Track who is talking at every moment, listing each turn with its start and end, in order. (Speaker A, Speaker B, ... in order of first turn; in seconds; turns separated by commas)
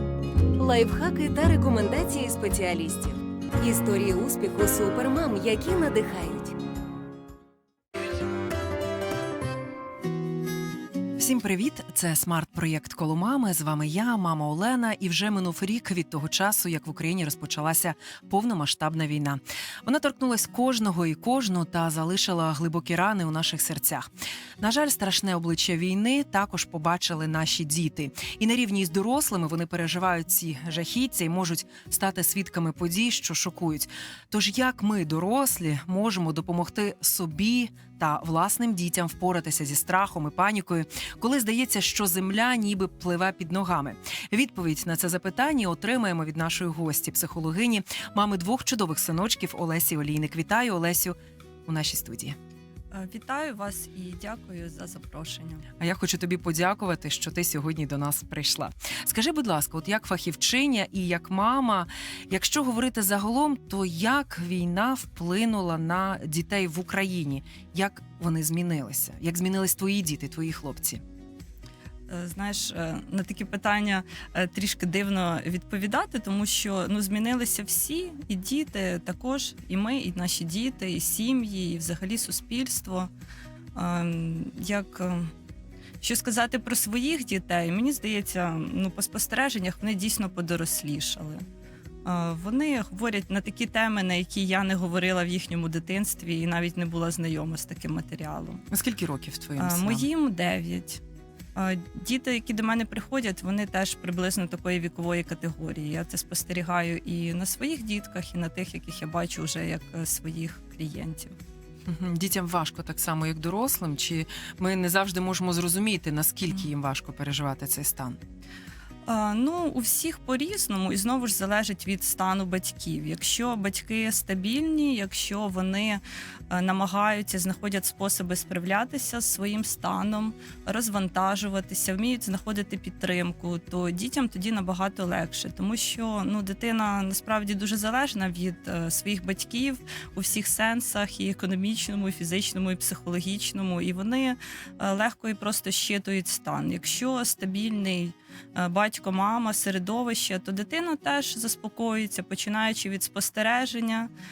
Speaker A: 0.6-6.5, Speaker B: 11.2-24.1, Speaker B: 24.6-52.4, Speaker C: 52.9-55.7, Speaker B: 55.8-71.0, Speaker C: 72.1-83.1, Speaker C: 83.7-85.3, Speaker C: 86.0-91.4, Speaker C: 92.0-98.6, Speaker B: 98.7-100.1, Speaker C: 99.6-101.0, Speaker C: 101.5-111.3, Speaker B: 111.9-118.2, Speaker C: 119.0-154.1